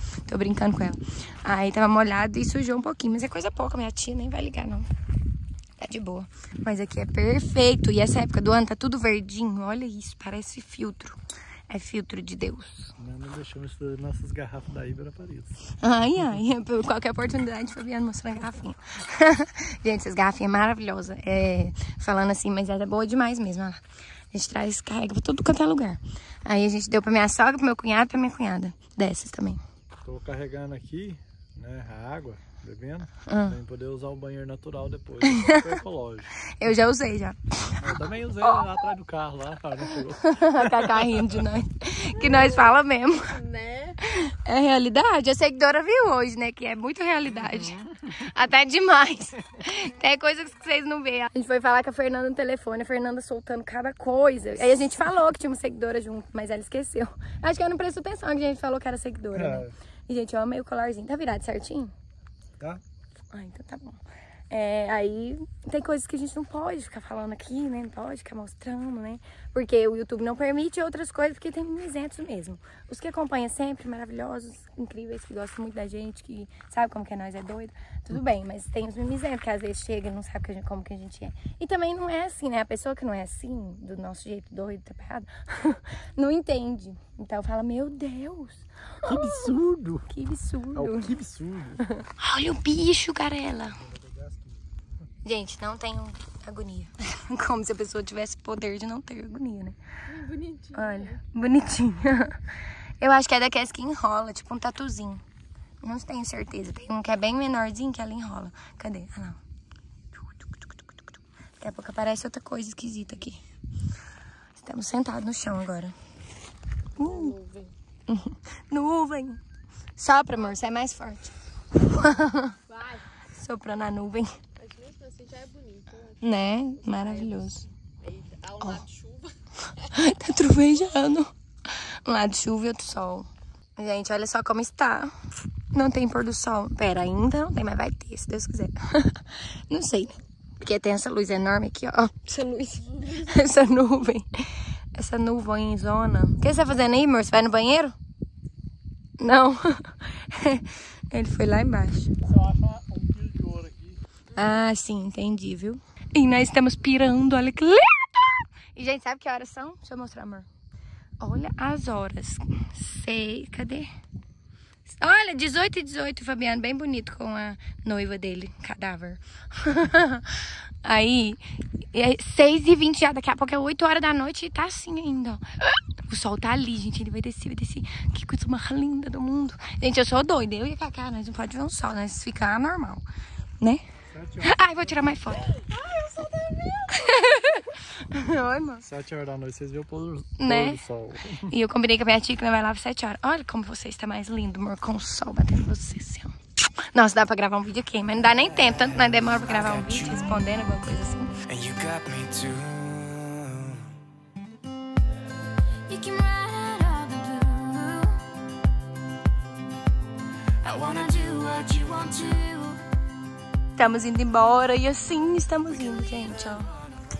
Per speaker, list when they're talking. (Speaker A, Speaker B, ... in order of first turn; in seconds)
Speaker A: 0.3-4.9, 5.8-11.2, 11.7-12.9, 15.8-23.8, 24.3-29.6, 33.3-33.6, 35.3-35.7, 36.5-38.8, 40.2-43.3, 44.0-61.9, 63.3-89.5, 90.1-91.2, 92.2-93.8, 95.2-99.8, 100.7-102.4, 103.0-105.2, 105.8-109.4, 110.2-110.7, 111.6-113.4, 114.6-116.0, 117.0-117.4, 118.1-119.4, 120.0-122.6, 123.3-124.4, 126.2-127.7, 129.9-135.2, 135.7-144.3, 144.9-147.9, 149.2-152.1, 154.3-160.5, 161.2-163.9, 164.9-171.4, 171.9-183.0, 184.4-185.6, 186.9-188.9, 190.4-190.8, 191.5-196.3, 196.9-201.3, 213.8-216.7
Speaker B: 13.0-15.6, 30.1-36.3, 37.8-41.4, 59.3-59.7, 89.1-90.1, 90.8-92.0, 93.8-94.6, 152.3-154.0, 184.1-185.1, 188.8-191.5
Speaker C: 42.2-42.7, 43.3-44.0, 100.1-101.2, 117.0-117.7, 122.7-123.1, 124.6-129.9, 154.3-154.6, 185.4-187.5
Speaker D: 198.5-200.4, 201.5-203.9, 210.6-212.4
Speaker E: 205.9-208.2, 210.6-212.8